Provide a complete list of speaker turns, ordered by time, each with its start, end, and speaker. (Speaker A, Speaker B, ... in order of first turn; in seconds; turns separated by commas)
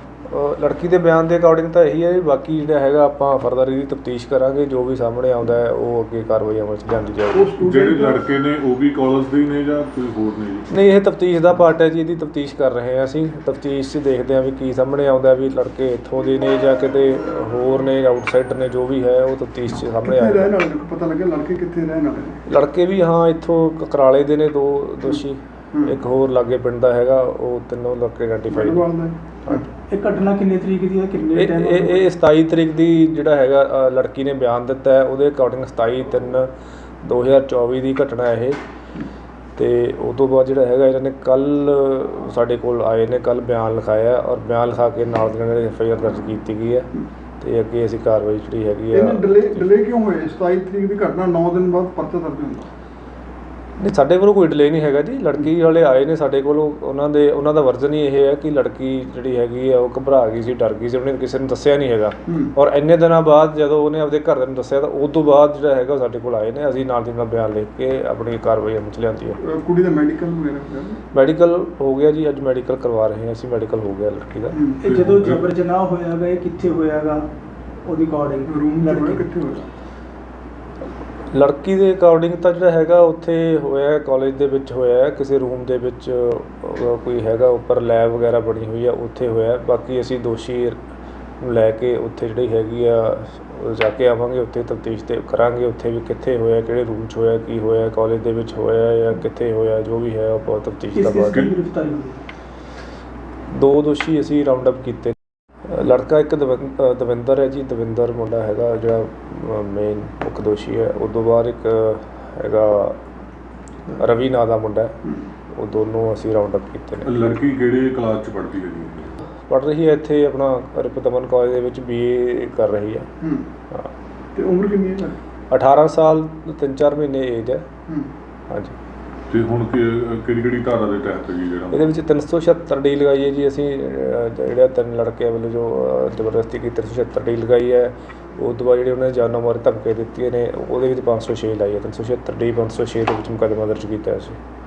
Speaker A: 0.3-7.5, Speaker B: 7.3-8.2, Speaker C: 7.6-10.7, Speaker A: 10.7-20.5, Speaker B: 20.0-22.4, Speaker A: 22.5-28.9, Speaker B: 25.7-26.0, Speaker B: 28.5-29.6, Speaker D: 29.9-32.1, Speaker A: 31.4-36.5, Speaker A: 37.0-38.6, Speaker A: 39.6-49.7, Speaker B: 48.9-52.7, Speaker A: 53.8-69.4, Speaker B: 62.3-62.5, Speaker B: 69.4-71.0, Speaker A: 71.1-74.6, Speaker B: 74.5-74.8, Speaker D: 74.8-77.3, Speaker C: 74.8-75.5, Speaker D: 77.9-79.2, Speaker B: 78.5-79.7, Speaker A: 81.3-90.8, Speaker A: 91.4-101.5, Speaker D: 100.9-102.2, Speaker A: 103.5-105.2, Speaker A: 105.7-113.0, Speaker A: 114.0-114.9, Speaker A: 115.5-117.1, Speaker C: 117.0-119.2, Speaker A: 119.4-123.1, Speaker B: 123.2-123.5, Speaker B: 124.3-125.2, Speaker A: 125.5-127.7, Speaker A: 128.5-128.8, Speaker C: 129.3-131.9, Speaker A: 131.7-144.4